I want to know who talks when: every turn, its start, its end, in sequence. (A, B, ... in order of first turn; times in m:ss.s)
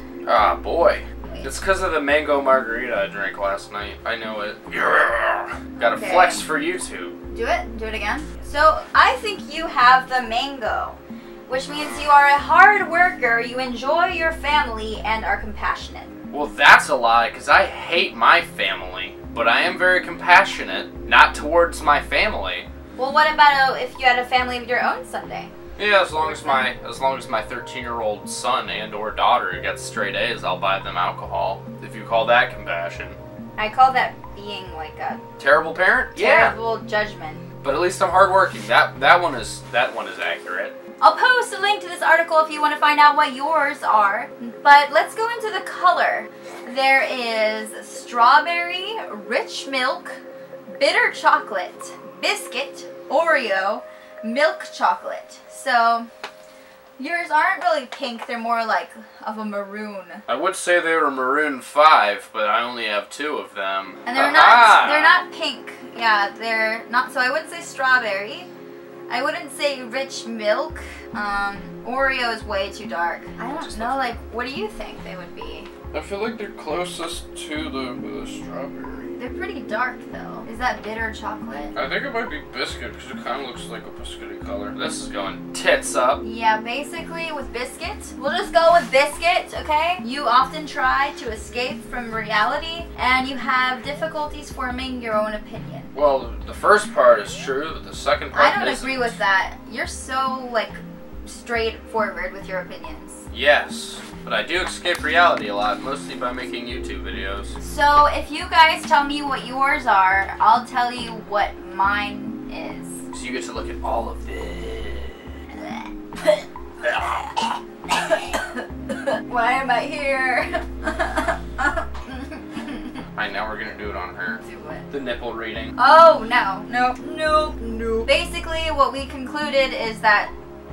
0:00.2-0:07.1 A
0:01.2-0:01.5 B
0:05.8-0:06.4 B
0:07.3-0:16.1 B
0:16.3-0:22.7 A
0:23.0-0:25.5 B
0:25.8-0:33.2 A
0:26.2-0:26.7 B
0:33.6-0:35.2 B
0:35.4-0:36.5 A
0:36.1-0:37.4 B
0:37.6-0:40.7 A
0:41.0-0:56.1 B
0:57.0-1:00.2 B
1:00.3-1:05.2 A
1:04.0-1:08.5 B
1:09.1-1:15.7 B
1:13.5-1:14.2 A
1:15.9-1:19.1 A
1:19.2-1:21.7 B
1:21.7-1:26.2 A
1:26.2-1:35.9 B
1:35.9-1:39.2 A
1:38.3-1:43.2 B
1:43.3-1:47.6 A
1:47.6-1:53.0 B
1:53.1-1:55.3 A
1:55.6-2:03.0 B
2:03.2-2:05.7 A
2:04.4-2:04.9 B
2:05.8-2:10.3 B